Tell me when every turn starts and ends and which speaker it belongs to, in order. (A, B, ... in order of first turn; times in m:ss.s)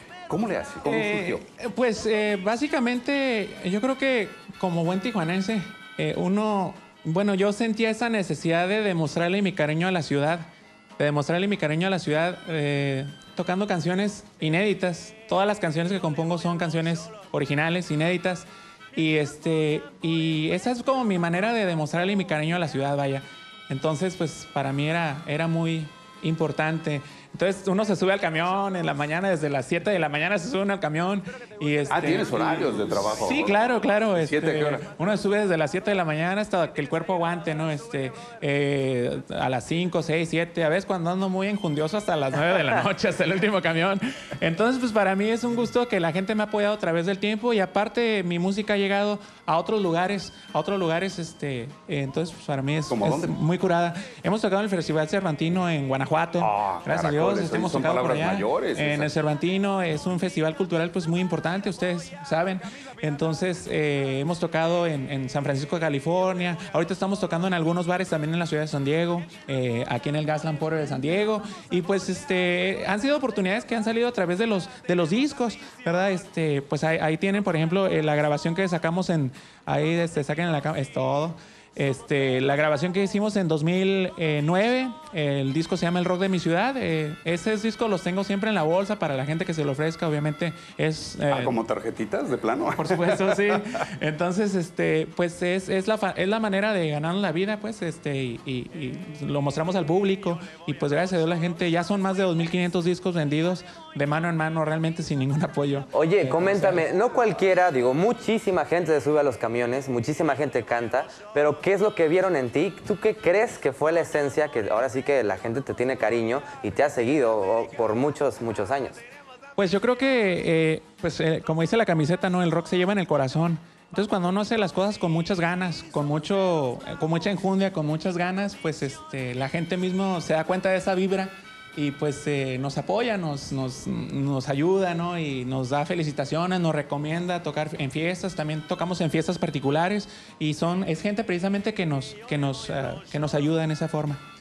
0:00.3-0:01.4 A
0:00.8-0:10.5 B
0:11.0-1:31.6 B
0:31.9-0:34.8 A
0:52.9-0:53.4 A
0:56.4-0:59.1 A
1:31.3-1:33.6 A
1:32.8-1:46.8 B
1:45.9-1:59.0 C
1:59.6-2:24.2 B